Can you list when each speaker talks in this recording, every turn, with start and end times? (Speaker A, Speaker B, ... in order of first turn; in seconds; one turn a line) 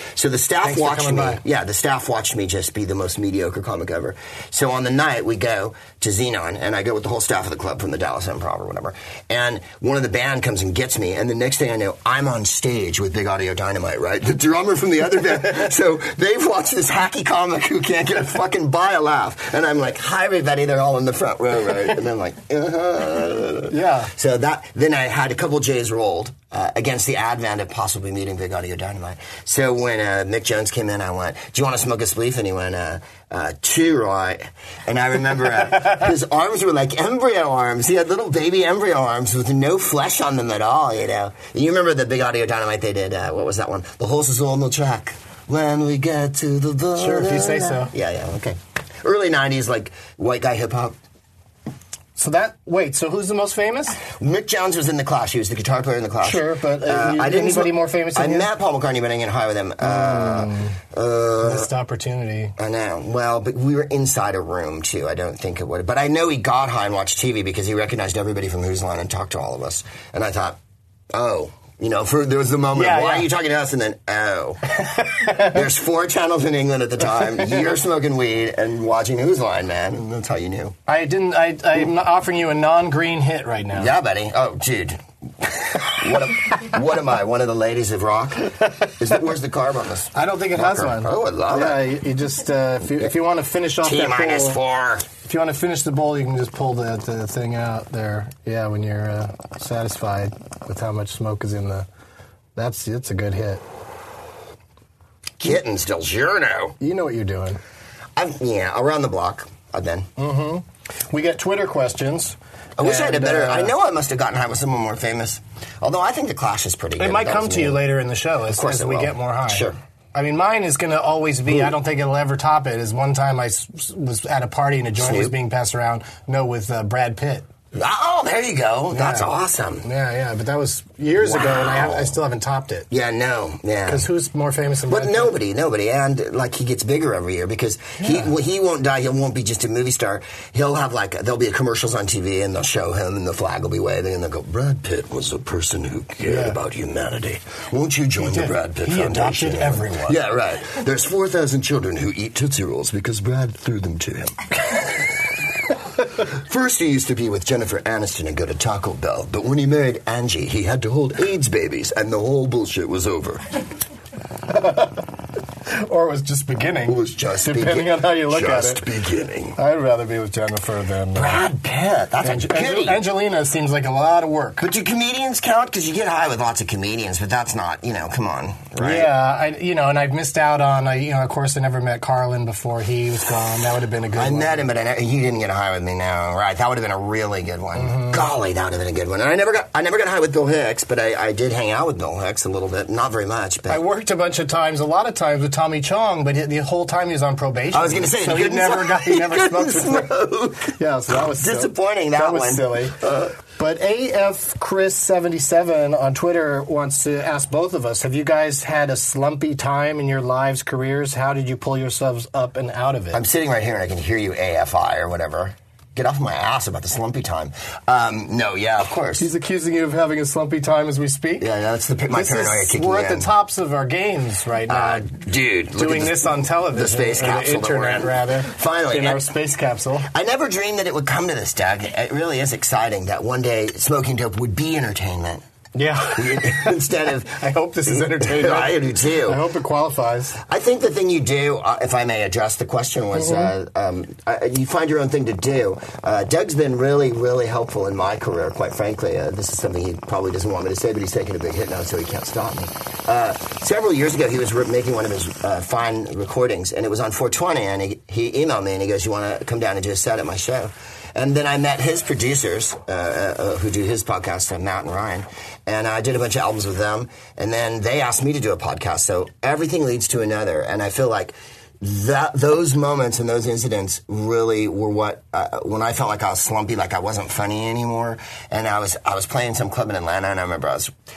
Speaker A: 0.1-51.0
Speaker B: 0.6-1.4
Speaker B: 23.7-24.1
Speaker B: 47.0-47.9
Speaker B: 52.2-54.0
Speaker A: 54.0-61.7
Speaker B: 56.2-58.5
Speaker B: 59.8-60.8
Speaker B: 61.4-62.5
Speaker A: 62.6-70.6
Speaker A: 71.1-80.7
Speaker B: 72.7-73.3
Speaker B: 74.9-75.5
Speaker B: 80.9-83.9
Speaker A: 83.7-91.8
Speaker B: 90.1-94.6
Speaker A: 93.8-95.0
Speaker B: 95.2-101.9
Speaker B: 102.5-103.6
Speaker A: 105.4-106.8
Speaker B: 106.8-107.6
Speaker A: 108.2-110.1
Speaker B: 110.2-113.7
Speaker A: 112.8-117.8
Speaker B: 117.0-127.5
Speaker A: 118.5-119.8
Speaker A: 125.0-125.3
Speaker A: 127.7-129.8
Speaker B: 128.9-129.3
Speaker B: 129.8-132.9
Speaker A: 131.2-132.2
Speaker A: 132.9-134.0
Speaker B: 133.8-135.3
Speaker A: 134.9-155.6
Speaker B: 138.0-138.3
Speaker B: 146.2-146.6
Speaker B: 148.2-150.2
Speaker A: 156.1-163.6
Speaker B: 164.5-165.0
Speaker B: 165.7-168.8
Speaker A: 166.8-169.6
Speaker B: 169.5-171.4
Speaker A: 171.1-173.0
Speaker B: 172.2-174.6
Speaker A: 174.6-179.1
Speaker B: 178.8-184.6
Speaker A: 184.1-193.8
Speaker B: 187.8-188.2
Speaker B: 193.7-200.1
Speaker A: 197.7-200.8
Speaker B: 200.7-203.0
Speaker A: 201.3-203.3
Speaker B: 203.5-213.2
Speaker A: 213.1-219.3
Speaker B: 219.2-221.4
Speaker A: 221.4-223.3
Speaker B: 222.1-225.2
Speaker A: 224.7-229.3
Speaker B: 225.7-230.1
Speaker A: 230.1-235.4
Speaker B: 235.7-240.4
Speaker A: 236.1-239.4
Speaker A: 240.4-280.9
Speaker B: 243.1-243.5